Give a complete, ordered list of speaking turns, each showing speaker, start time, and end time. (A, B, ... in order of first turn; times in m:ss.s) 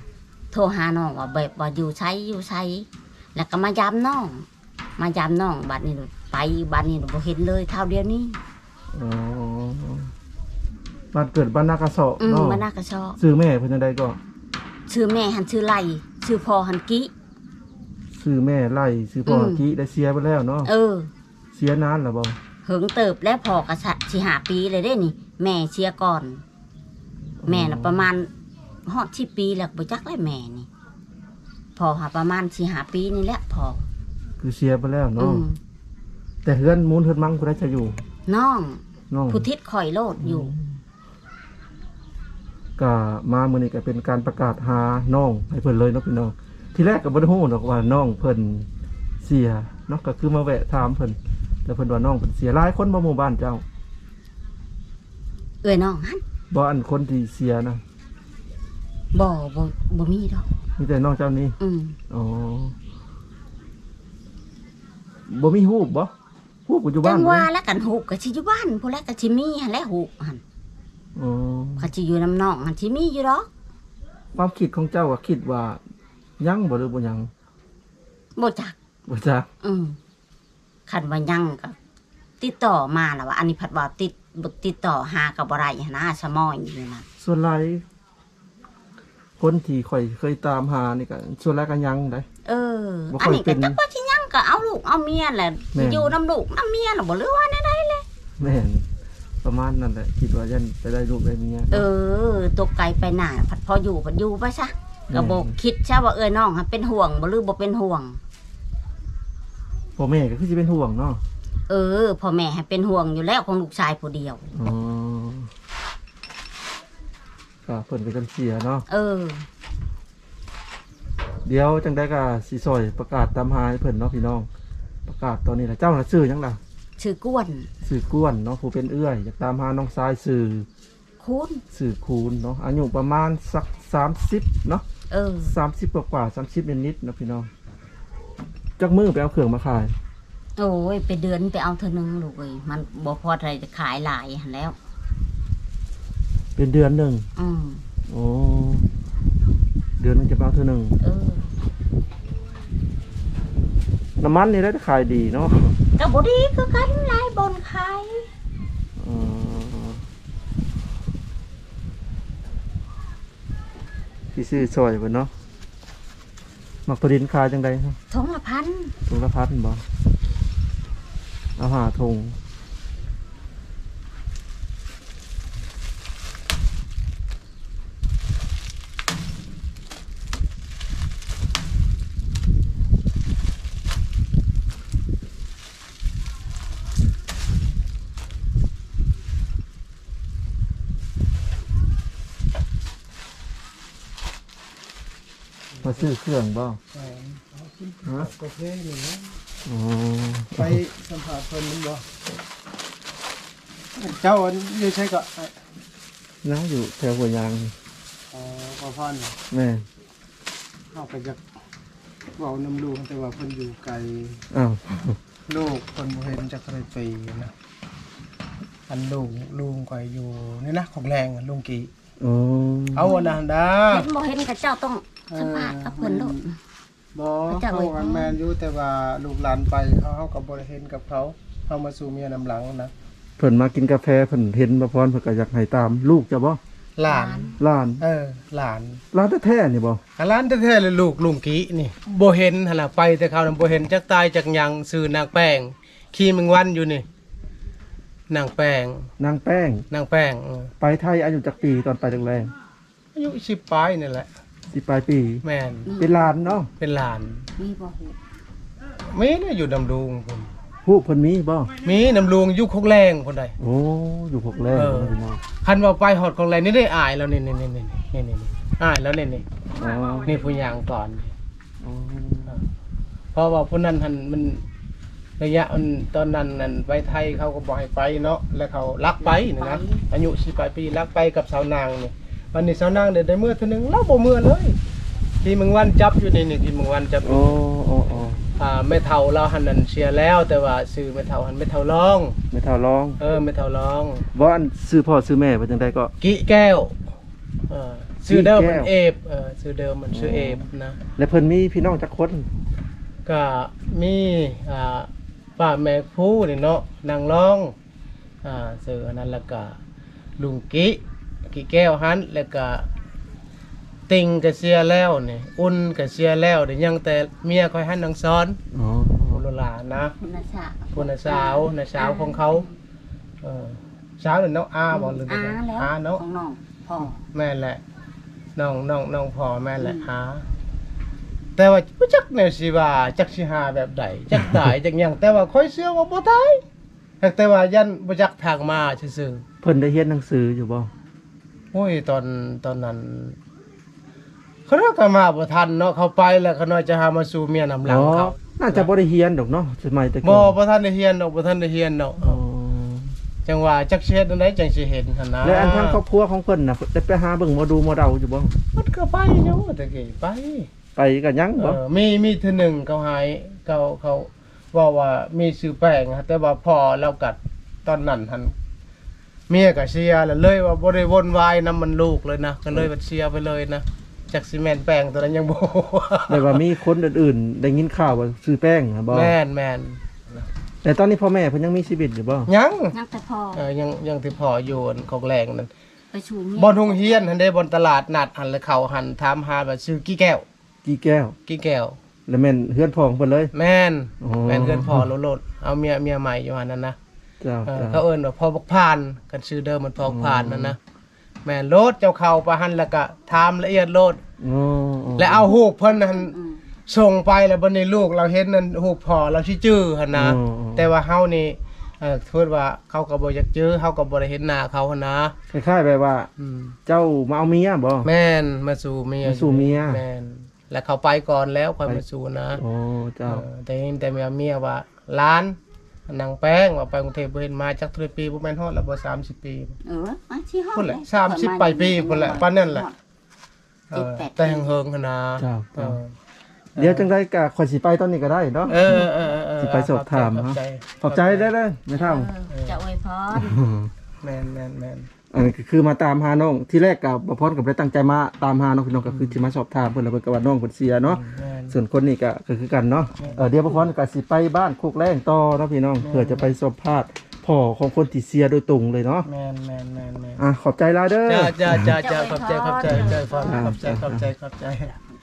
0:00.5-0:08.4 A
0:08.9-0:10.1 B
0:11.1-0:12.6 B
0:12.2-0:13.2 A
0:13.2-0:14.2 B
0:14.9-0:17.1 A
0:18.1-0:20.7 B
0:19.3-0:19.6 A
0:20.6-0:21.1 A
0:21.5-0:22.4 B
0:22.6-0:26.4 A
0:27.4-0:28.1 B
0:27.4-0:28.3 A
0:28.8-0:30.7 A
0:31.8-0:33.9 A
0:34.4-0:35.4 B
0:35.2-0:35.6 A
0:36.4-0:38.0 B
0:38.2-0:40.5 A
0:39.1-0:39.4 B
0:40.2-0:40.8 B
0:42.8-0:48.7 B
0:49.2-0:53.6 B
0:55.6-0:56.2 A
0:56.5-0:57.8 B
0:59.1-1:00.5 A
1:00.8-1:01.6 B
1:01.6-1:02.0 A
1:02.1-1:02.7 B
1:05.3-1:06.1 B
1:06.6-1:07.5 B
1:07.0-1:10.4 A
1:11.1-1:11.9 B
1:11.8-1:13.5 A
1:14.3-1:15.8 B
1:16.4-1:17.3 B
1:18.4-1:18.7 A
1:19.1-1:19.5 B
1:19.6-1:20.0 A
1:20.9-1:21.8 A
1:22.4-1:27.0 A
1:27.2-1:27.8 B
1:29.4-1:32.2 B
1:32.4-1:38.0 A
1:33.1-1:33.8 B
1:35.7-1:36.1 B
1:38.4-1:38.8 B
1:39.4-1:41.9 B
1:41.7-1:48.2 A
1:45.1-1:45.5 B
1:50.0-1:51.2 B
1:51.7-1:54.5 A
1:54.5-1:55.5 B
1:57.6-1:58.8 B
1:58.9-1:59.5 A
2:01.4-2:04.5 B
2:05.0-2:06.6 B
2:07.0-2:07.7 A
2:07.8-2:10.7 B
2:11.2-2:11.6 A
2:11.7-2:14.8 B
2:15.1-2:15.5 A
2:15.4-2:17.5 B
2:18.8-2:19.9 B
2:20.6-2:24.8 A
2:26.6-2:27.3 B
2:27.4-2:27.8 A
2:28.1-2:28.9 B
2:30.0-2:31.0 B
2:31.0-2:31.5 A
2:34.2-2:35.8 B
2:36.0-2:38.3 A
2:39.0-2:40.0 B
2:44.3-2:45.3 B
2:46.8-2:48.0 B
2:48.1-2:48.9 A
2:49.1-2:49.8 B
2:51.6-2:52.4 B
3:15.8-3:16.8 B
3:16.9-3:19.4 C
3:18.0-3:18.3 B
3:19.6-3:20.8 B
3:20.6-3:22.0 C
3:23.9-3:25.5 C
3:26.4-3:27.7 B
3:28.3-3:29.4 C
3:29.5-3:29.8 B
3:30.9-3:31.4 C
3:32.4-3:34.4 C
3:34.5-3:35.2 B
3:35.5-3:37.5 C
3:38.9-3:41.9 C
3:42.2-3:43.1 B
3:42.9-3:44.1 C
3:43.1-3:43.4 A
3:43.9-3:46.6 A
3:45.3-3:46.4 C
3:47.1-3:52.9 C
3:47.5-3:48.4 A
3:53.4-3:56.6 B
3:57.0-3:59.0 C
3:57.0-3:57.6 A
3:57.6-3:58.0 B
3:59.1-4:00.0 B
4:00.2-4:07.0 C
4:08.3-4:09.1 C
4:09.2-4:09.8 B
4:09.9-4:10.7 C
4:10.8-4:12.5 B
4:13.1-4:14.3 C
4:14.7-4:15.4 B
4:15.4-4:15.9 C
4:15.8-4:16.5 A
4:16.0-4:16.7 B
4:16.8-4:17.4 C
4:17.6-4:18.2 A
4:19.1-4:20.5 C
4:20.8-4:21.7 B
4:21.8-4:23.6 C
4:23.6-4:25.4 B
4:24.7-4:29.4 C
4:29.8-4:30.3 B
4:30.2-4:31.3 C
4:31.8-4:32.6 B
4:33.3-4:34.6 C
4:35.4-4:44.8 C
4:39.2-4:40.0 A
4:45.4-4:47.6 C
4:47.2-4:48.4 B
4:48.6-4:52.4 C
4:52.5-4:53.2 B
4:53.2-4:54.2 C
4:54.3-4:56.1 B
4:56.2-4:57.0 C
4:57.7-5:01.0 C
4:58.3-4:58.9 B
5:00.1-5:00.6 B
5:01.2-5:02.5 B
5:03.2-5:07.7 C
5:08.4-5:09.8 C
5:10.4-5:12.9 C
5:14.1-5:18.6 C
5:18.7-5:19.4 B
5:19.3-5:20.1 C
5:20.2-5:22.7 A
5:20.9-5:22.6 C
5:23.4-5:26.2 C
5:24.9-5:27.2 A
5:27.2-5:27.8 C
5:28.6-5:30.5 C
5:29.8-5:30.1 A
5:31.6-5:36.6 C
5:34.3-5:34.6 B
5:37.2-5:39.4 C
5:39.6-5:40.9 B
5:41.7-5:43.4 C
5:44.7-5:48.9 C
5:47.8-5:50.5 B
5:50.2-5:52.4 C
5:52.2-5:53.2 B
5:53.4-5:56.0 C
5:55.4-5:58.5 B
5:58.7-6:00.7 C
6:01.0-6:01.8 B
6:01.6-6:08.5 C
6:09.5-6:16.6 C
6:16.3-6:19.4 B
6:19.1-6:20.5 C
6:20.8-6:22.5 B
6:22.5-6:22.9 C
6:22.9-6:23.6 A
6:23.5-6:25.7 C
6:26.1-6:27.2 A
6:26.6-6:30.4 C
6:30.8-6:31.4 B
6:31.5-6:32.0 C
6:32.3-6:33.5 B
6:33.5-6:37.0 C
6:34.2-6:35.1 B
6:37.4-6:38.0 B
6:37.7-6:40.8 C
6:40.0-6:40.8 B
6:41.4-6:44.2 C
6:44.4-6:45.5 B
6:45.2-6:46.3 C
6:45.8-6:46.6 A
6:46.9-6:55.3 C
6:50.1-6:50.9 B
6:55.5-6:56.3 B
6:56.4-6:56.8 C
6:56.8-6:58.1 B
6:58.0-7:02.6 C
6:59.2-7:00.0 B
7:02.5-7:03.4 B
7:03.2-7:05.6 C
7:06.1-7:09.8 C
7:09.8-7:13.0 A
7:10.7-7:12.9 C
7:13.9-7:16.1 C
7:13.9-7:14.7 A
7:15.4-7:16.0 B
7:16.8-7:17.1 C
7:16.8-7:19.0 B
7:18.7-7:21.5 C
7:19.6-7:22.3 B
7:21.9-7:23.6 A
7:22.5-7:22.8 C
7:23.4-7:23.9 B
7:24.2-7:25.1 C
7:25.3-7:39.3 B
7:29.1-7:29.4 C
7:31.0-7:31.7 C
7:33.2-7:33.9 C
7:36.0-7:36.5 C
7:39.2-7:40.4 C
7:40.4-7:42.0 B
7:41.3-7:45.0 C
7:42.0-7:43.7 A
7:42.9-7:44.3 B